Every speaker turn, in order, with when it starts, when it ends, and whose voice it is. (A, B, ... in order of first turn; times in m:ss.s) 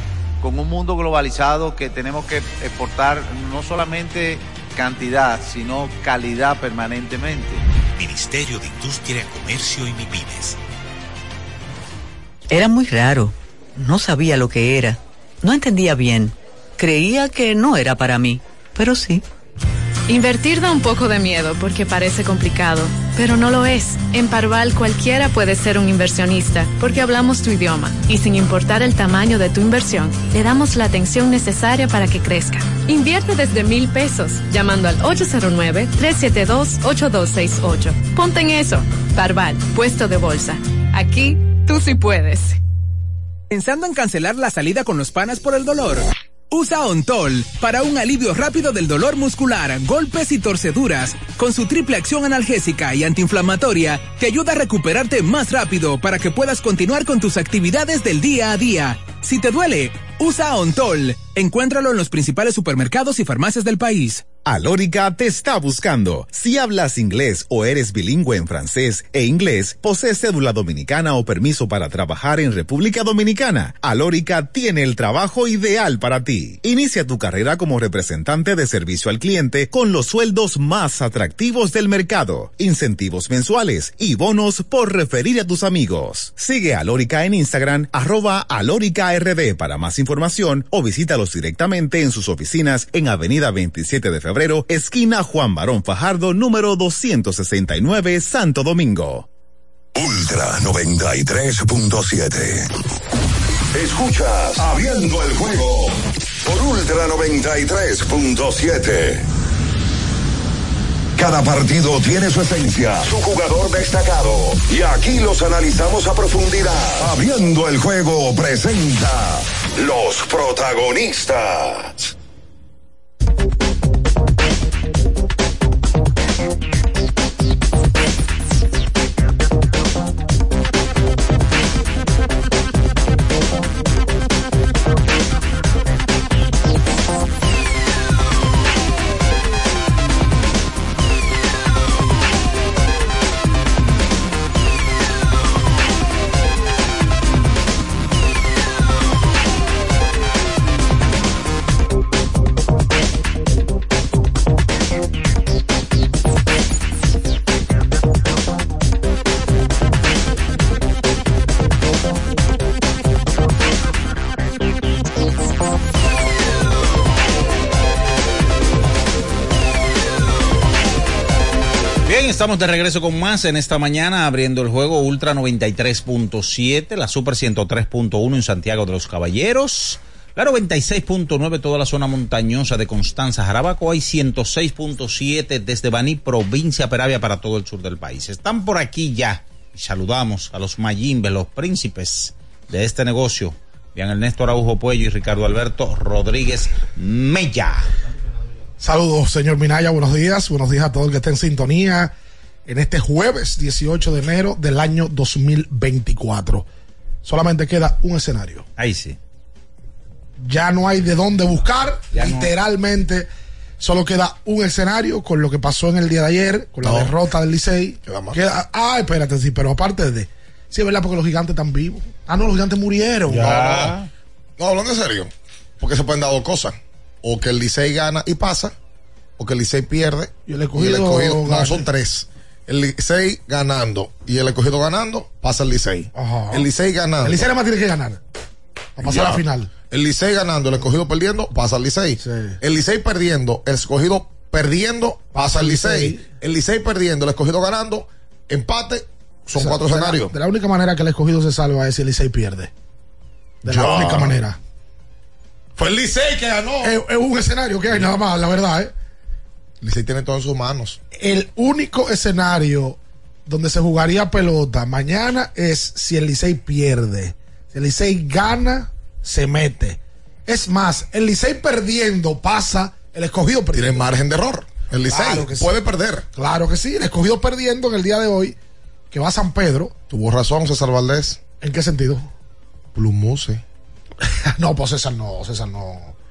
0:00.4-0:07.6 A
0:08.0-0:10.6 B
0:12.5-0:19.2 C
0:20.1-0:42.6 D
0:43.5-1:04.2 E
1:04.5-1:39.3 F
1:40.0-1:42.7 G
1:43.7-1:49.3 G
1:51.2-2:02.0 G
2:52.1-3:17.9 H
3:18.8-3:22.1 I
3:22.7-3:26.7 I
3:27.2-3:28.7 I
3:28.8-3:29.2 H
3:30.4-3:33.3 I
3:32.1-3:32.5 H
3:33.8-3:43.8 I
3:36.8-3:37.1 J
3:38.0-3:38.4 J
3:43.3-3:44.1 H
3:43.3-3:44.0 J
3:44.6-3:48.8 J
3:49.4-3:57.5 J
3:50.5-3:51.9 I
3:56.2-3:56.7 I
3:57.2-3:58.2 I
3:59.0-3:59.7 I
3:59.0-4:10.3 J
4:02.2-4:02.6 I
4:05.3-4:06.3 I
4:09.6-4:12.7 I
4:13.6-4:14.4 J
4:13.6-4:14.6 I
4:15.8-4:17.0 J
4:16.8-4:18.9 I
4:19.8-4:21.0 J
4:21.2-4:34.1 I
4:33.7-4:36.3 J
4:35.1-4:35.7 I
4:36.4-4:38.6 I
4:39.1-4:40.0 I
4:40.1-4:41.4 J
4:41.6-4:42.3 I
4:43.0-4:43.6 J
4:44.2-4:46.1 I